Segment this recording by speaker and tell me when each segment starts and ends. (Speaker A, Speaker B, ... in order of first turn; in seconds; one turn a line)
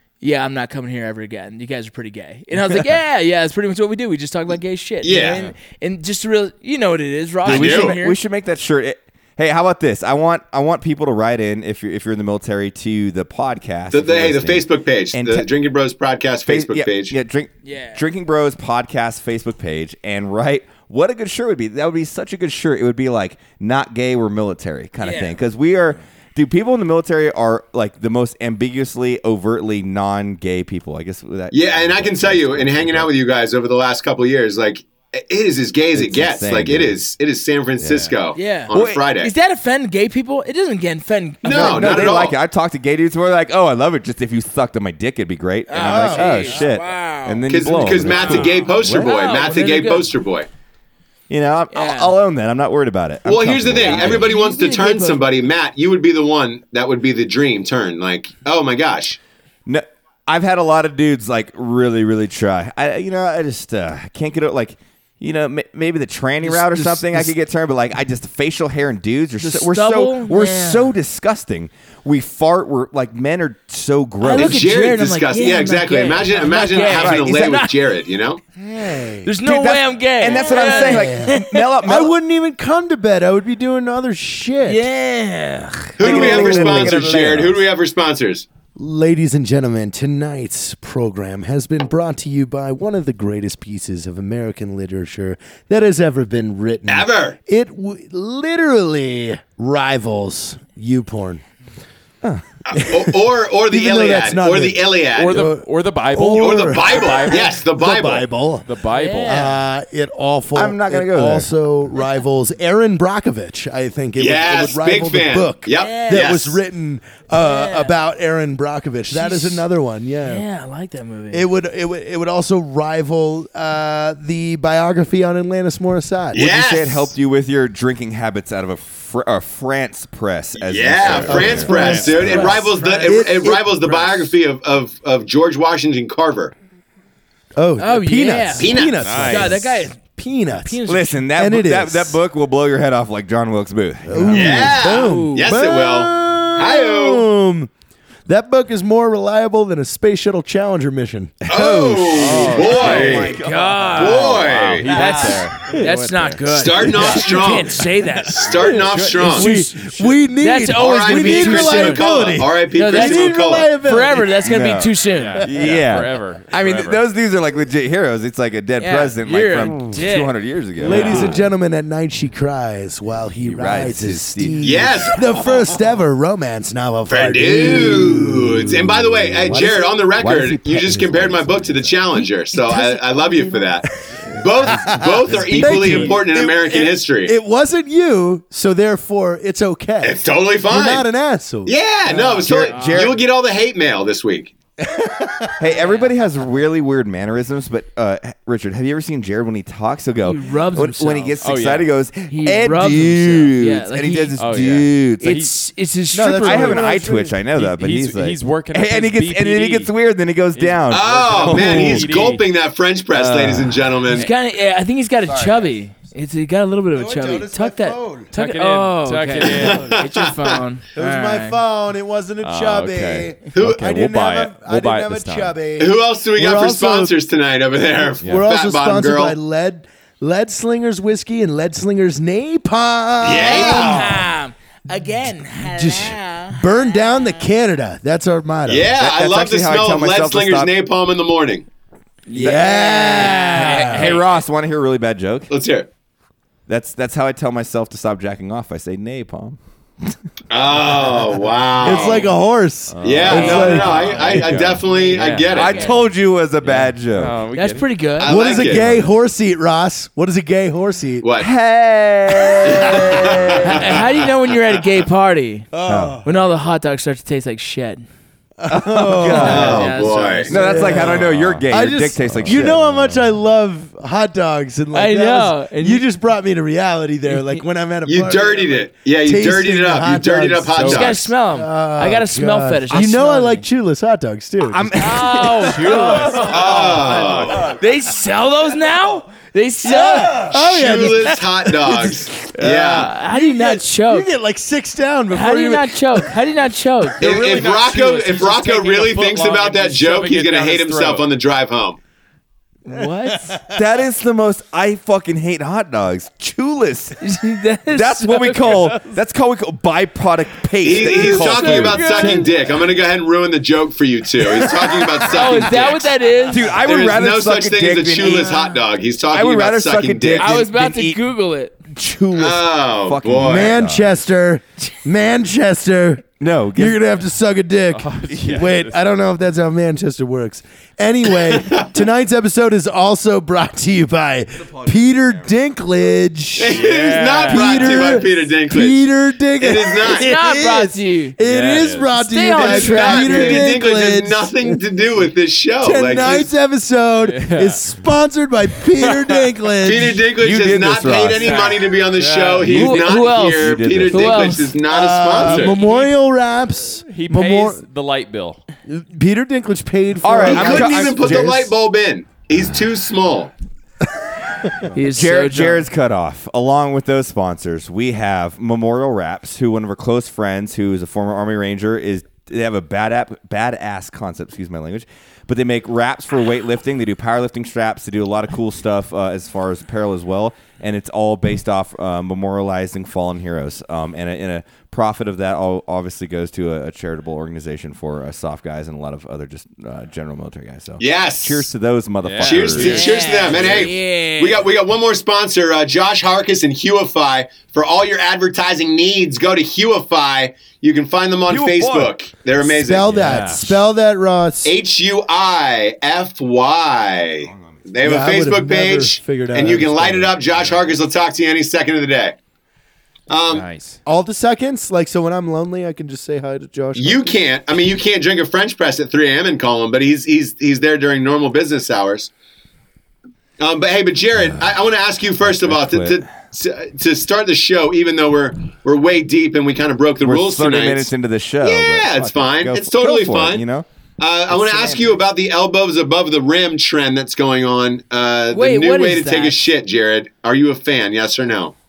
Speaker A: 0.2-8.2
Speaker B: 5.0-5.5
Speaker B: 7.4-8.0
Speaker C: 7.5-15.5
Speaker B: 13.9-17.1
Speaker C: 16.5-33.1
Speaker A: 17.6-18.0
Speaker A: 25.0-25.4
Speaker B: 31.5-39.3
Speaker C: 35.9-37.0
Speaker C: 37.8-38.1
Speaker A: 38.3-42.2
Speaker C: 38.7-39.0
Speaker B: 41.4-42.4
Speaker C: 41.4-49.1
Speaker A: 45.7-50.1
Speaker D: 45.8-46.6
Speaker B: 47.5-50.5
Speaker C: 51.3-54.3
Speaker A: 51.7-52.2
Speaker B: 53.2-59.2
Speaker A: 53.7-55.2
Speaker C: 59.7-74.6
Speaker A: 66.5-67.2
Speaker D: 66.7-67.0
Speaker A: 69.4-70.9
Speaker A: 74.2-77.8
Speaker B: 74.3-78.4
Speaker C: 76.8-77.6
Speaker D: 78.5-79.3
Speaker A: 79.2-81.7
Speaker C: 79.4-82.1
Speaker D: 80.3-84.8
Speaker A: 84.7-86.0
Speaker B: 86.0-88.5
Speaker C: 86.0-87.6
Speaker D: 86.0-87.4
Speaker D: 88.8-101.4
Speaker B: 96.9-97.4
Speaker B: 102.7-105.5
Speaker D: 102.7-108.7
Speaker E: 105.1-107.6
Speaker B: 106.3-108.3
Speaker E: 108.6-109.5
Speaker A: 108.9-109.6
Speaker D: 109.3-120.4
Speaker C: 110.5-111.5
Speaker B: 114.2-116.6
Speaker A: 115.7-116.4
Speaker A: 117.4-117.9
Speaker A: 119.1-119.7
Speaker A: 120.2-121.5
Speaker D: 121.3-126.5
Speaker B: 126.3-127.1
Speaker C: 126.3-132.5
Speaker B: 130.6-136.5
Speaker E: 131.1-132.3
Speaker D: 131.3-134.2
Speaker A: 131.7-132.8
Speaker D: 137.6-140.8
Speaker A: 137.8-141.1
Speaker B: 138.6-139.2
Speaker E: 139.0-139.6
Speaker C: 140.9-144.8
Speaker D: 141.3-142.2
Speaker D: 144.1-147.7
Speaker B: 144.3-147.3
Speaker A: 144.8-145.5
Speaker D: 148.3-152.7
Speaker B: 151.5-153.4
Speaker E: 152.1-153.4
Speaker C: 152.3-155.4
Speaker A: 152.7-162.1
Speaker B: 153.9-154.9
Speaker E: 153.9-156.4
Speaker B: 156.5-159.5
Speaker D: 157.1-157.3
Speaker D: 158.6-164.4
Speaker E: 158.7-159.3
Speaker B: 160.7-163.7
Speaker A: 162.7-165.5
Speaker C: 164.4-171.4
Speaker E: 165.2-167.0
Speaker A: 168.8-170.3
Speaker D: 170.8-178.9
Speaker A: 170.9-171.3
Speaker E: 170.9-171.4
Speaker C: 173.4-175.1
Speaker B: 174.6-175.7
Speaker B: 177.1-187.3
Speaker C: 179.0-182.1
Speaker D: 179.5-180.0
Speaker A: 182.7-183.7
Speaker D: 184.0-192.5
Speaker B: 190.0-191.1
Speaker B: 191.7-194.6
Speaker C: 192.4-193.2
Speaker A: 192.7-193.1
Speaker D: 195.0-195.5
Speaker C: 195.6-205.4
Speaker A: 195.7-196.1
Speaker A: 200.2-201.4
Speaker E: 201.4-201.9
Speaker A: 202.3-204.4
Speaker E: 204.4-205.5
Speaker A: 205.2-207.0
Speaker D: 206.1-207.4
Speaker C: 206.3-212.3
Speaker E: 207.5-209.9
Speaker E: 210.5-212.4
Speaker B: 210.9-214.3
Speaker C: 213.1-213.9
Speaker A: 214.1-221.6
Speaker C: 215.3-215.6
Speaker D: 216.9-218.3
Speaker E: 218.3-219.9
Speaker B: 219.5-220.6
Speaker D: 221.0-227.1
Speaker E: 222.4-225.6
Speaker B: 223.5-223.9
Speaker B: 225.8-229.4
Speaker D: 228.2-234.3
Speaker B: 233.2-234.2
Speaker A: 233.3-237.4
Speaker D: 235.5-238.9
Speaker B: 238.7-241.7
Speaker C: 238.9-240.7
Speaker A: 242.3-244.2
Speaker D: 242.3-244.2
Speaker C: 242.4-245.5
Speaker B: 245.5-245.9
Speaker C: 246.7-250.1
Speaker B: 250.5-252.3
Speaker D: 251.8-254.1
Speaker E: 252.9-255.9
Speaker B: 253.0-255.9
Speaker A: 253.3-253.7
Speaker A: 254.9-256.0
Speaker C: 255.5-257.4
Speaker E: 256.6-257.9
Speaker A: 257.5-258.4
Speaker B: 258.2-259.0
Speaker D: 258.2-261.3
Speaker C: 258.6-259.1
Speaker B: 261.2-261.5
Speaker C: 261.4-263.9
Speaker D: 262.6-263.1
Speaker B: 262.7-264.0
Speaker A: 263.6-265.7
Speaker D: 265.7-266.3
Speaker C: 265.9-266.2
Speaker A: 266.2-268.1
Speaker D: 268.6-285.2
Speaker C: 268.7-273.2
Speaker A: 269.3-271.0
Speaker B: 269.4-270.9
Speaker E: 270.9-271.7
Speaker E: 272.3-272.7
Speaker A: 274.9-276.1
Speaker A: 277.3-277.6
Speaker B: 278.1-281.3
Speaker E: 280.7-281.1
Speaker A: 280.8-283.6
Speaker C: 284.6-287.7
Speaker A: 285.0-286.8
Speaker E: 285.7-287.3
Speaker B: 286.5-287.7
Speaker A: 287.6-290.6
Speaker D: 289.8-296.3
Speaker B: 290.5-293.1
Speaker A: 292.7-294.3
Speaker A: 295.3-297.2
Speaker B: 297.2-302.0
Speaker E: 297.2-301.3
Speaker A: 302.9-303.6
Speaker D: 303.3-303.8
Speaker C: 303.7-307.2
Speaker A: 307.2-309.1
Speaker C: 307.9-312.1
Speaker B: 310.8-316.1
Speaker A: 311.0-312.5
Speaker D: 312.1-312.6
Speaker A: 315.2-316.8
Speaker C: 316.5-318.6
Speaker B: 316.7-320.6
Speaker C: 319.3-321.2
Speaker A: 320.4-321.8
Speaker C: 321.9-324.2
Speaker B: 322.4-323.8
Speaker D: 323.4-336.9
Speaker C: 326.4-327.0
Speaker E: 327.9-329.0
Speaker B: 331.4-331.9
Speaker C: 334.8-335.4
Speaker B: 336.6-339.1
Speaker E: 336.7-338.2
Speaker D: 337.5-344.8
Speaker B: 339.6-340.3
Speaker A: 340.1-341.4
Speaker E: 341.4-342.2
Speaker A: 342.2-343.7
Speaker B: 342.6-346.5
Speaker D: 345.8-350.3
Speaker E: 347.2-347.9
Speaker E: 349.0-349.4
Speaker B: 349.8-355.9
Speaker C: 350.4-351.6
Speaker E: 351.3-352.7
Speaker C: 352.6-354.6
Speaker A: 352.7-354.8
Speaker D: 354.9-357.8
Speaker E: 355.4-356.1
Speaker E: 357.1-358.6
Speaker D: 358.9-361.7
Speaker C: 360.2-361.7
Speaker B: 360.4-363.5
Speaker A: 364.9-365.8
Speaker C: 365.1-393.1
Speaker B: 391.0-391.7
Speaker E: 392.2-393.1
Speaker B: 392.4-403.4
Speaker A: 392.8-394.6
Speaker C: 401.5-402.1
Speaker D: 402.6-404.7
Speaker E: 403.1-403.7
Speaker B: 404.6-412.4
Speaker C: 407.4-407.9
Speaker D: 408.0-410.3
Speaker B: 413.3-413.7
Speaker E: 413.5-414.0
Speaker D: 414.1-417.4
Speaker B: 416.9-422.3
Speaker B: 423.6-433.6
Speaker C: 425.4-426.2
Speaker C: 430.2-433.9
Speaker B: 434.2-441.8
Speaker C: 434.5-435.0
Speaker A: 438.5-439.6